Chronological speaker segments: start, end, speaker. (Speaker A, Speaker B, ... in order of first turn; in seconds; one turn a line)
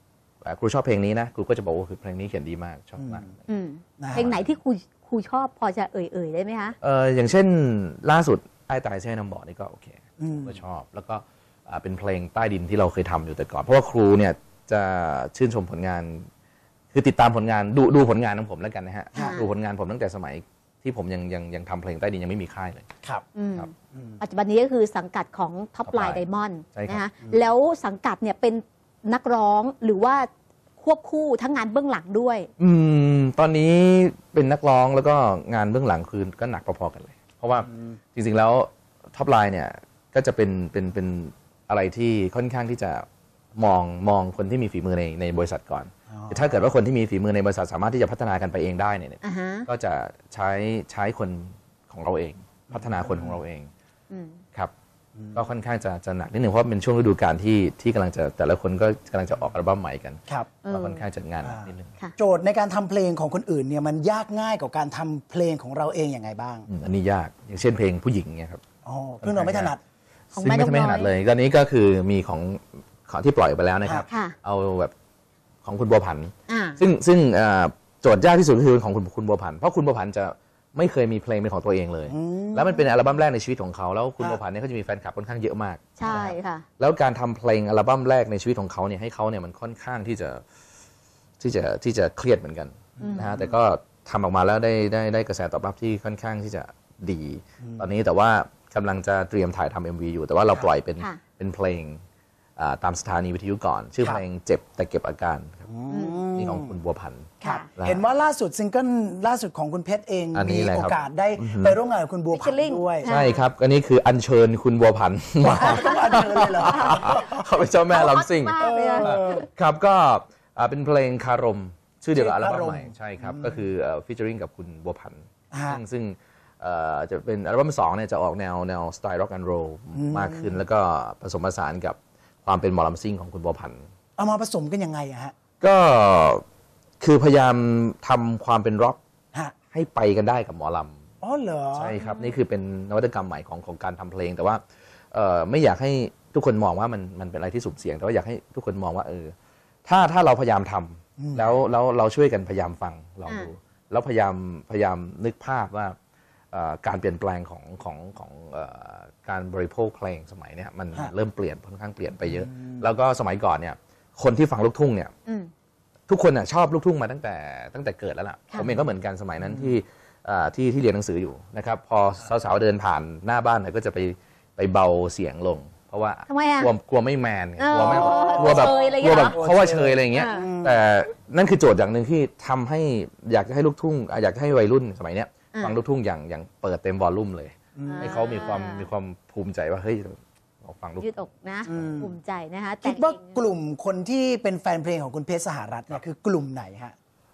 Speaker A: 0.4-3.4
Speaker B: 3.0-3.3
Speaker C: 3.5-6.8
Speaker B: 4.0-4.3
Speaker A: 4.1-4.6
Speaker A: 6.8-16.3
Speaker B: 10.2-10.6
Speaker A: 16.9-22.9
Speaker B: 19.1-19.4
Speaker C: 19.2-19.5
Speaker C: 23.3-30.3
Speaker B: 23.9-24.2
Speaker A: 25.8-27.0
Speaker C: 30.8-32.5
Speaker A: 32.6-53.7
Speaker B: 46.1-46.6
Speaker C: 49.2-49.7
Speaker B: 52.7-53.4
Speaker C: 54.1-54.4
Speaker B: 55.2-55.5
Speaker A: 55.3-62.0
Speaker C: 60.6-61.0
Speaker B: 61.4-66.7
Speaker A: 66.7-68.6
Speaker B: 68.8-69.8
Speaker A: 69.2-69.8
Speaker C: 70.3-71.1
Speaker A: 70.4-74.9
Speaker C: 74.1-74.3
Speaker A: 75.6-85.9
Speaker C: 76.5-76.8
Speaker B: 82.1-82.8
Speaker C: 86.0-86.6
Speaker B: 86.1-86.3
Speaker A: 86.8-90.4
Speaker A: 91.4-102.0
Speaker C: 93.0-93.4
Speaker B: 93.0-93.5
Speaker B: 97.6-97.9
Speaker A: 102.6-105.7
Speaker B: 105.7-106.7
Speaker C: 105.9-106.3
Speaker A: 106.3-108.0
Speaker C: 107.4-107.7
Speaker B: 107.4-113.1
Speaker A: 110.3-111.8
Speaker C: 112.3-113.4
Speaker A: 113.1-133.9
Speaker B: 115.4-117.4
Speaker C: 115.7-116.2
Speaker C: 116.8-117.2
Speaker C: 117.9-119.5
Speaker B: 118.6-119.4
Speaker B: 122.1-123.6
Speaker B: 125.5-125.8
Speaker B: 129.9-130.6
Speaker B: 134.2-135.3
Speaker A: 135.6-136.4
Speaker A: 137.0-139.0
Speaker A: 139.7-141.0
Speaker B: 141.2-141.9
Speaker A: 141.7-149.3
Speaker C: 142.0-142.4
Speaker A: 149.8-155.9
Speaker B: 151.2-151.5
Speaker A: 156.5-165.1
Speaker B: 162.4-162.8
Speaker A: 166.1-191.1
Speaker C: 176.3-176.7
Speaker C: 177.6-179.4
Speaker B: 178.0-180.8
Speaker C: 180.1-180.5
Speaker B: 187.8-188.1
Speaker C: 187.8-188.9
Speaker C: 191.0-193.4
Speaker B: 191.7-192.1
Speaker B: 192.8-196.9